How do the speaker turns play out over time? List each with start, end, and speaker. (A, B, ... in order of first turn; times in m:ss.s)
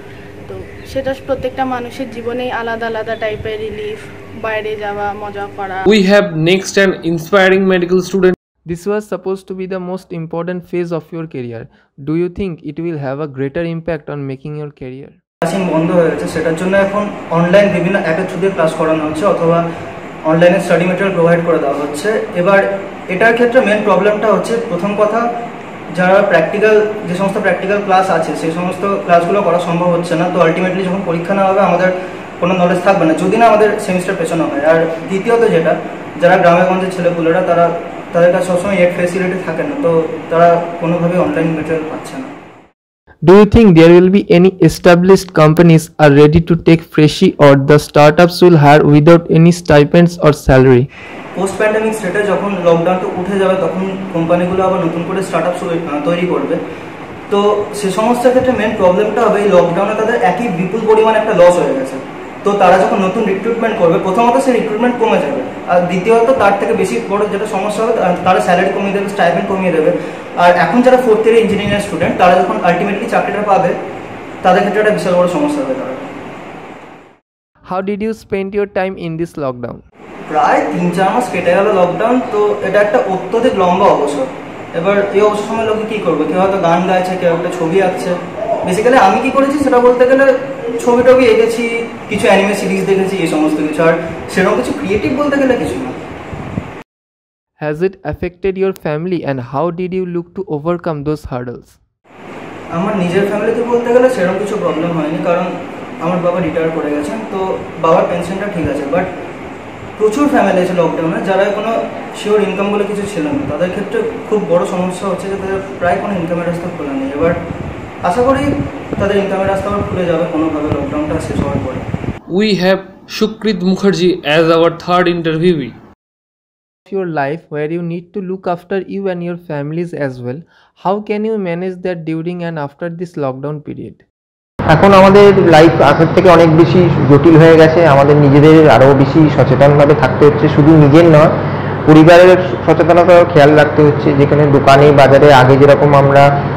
0:00.5-0:05.9 A
0:05.9-0:08.4 B
0:08.7-0:15.2 C
0:15.5-0:19.6 D
0:20.2-0:25.2 D
0:25.9-0:42.3 D
0:43.2-0:50.9 C
0:51.4-0:56.6 D
0:57.3-1:13.7 D
1:14.4-1:16.0 D
1:17.6-1:19.8 C
1:20.3-1:28.1 D
1:28.6-1:36.0 D
1:37.6-1:41.8 C
1:42.7-1:45.5 D
1:46.0-1:49.1 D
1:50.0-1:57.4 D
1:58.0-1:58.4 D
1:59.0-2:01.8 D
2:02.3-2:05.8 B
2:06.8-2:14.0 C
2:14.7-2:21.3 E
2:21.8-2:26.2 E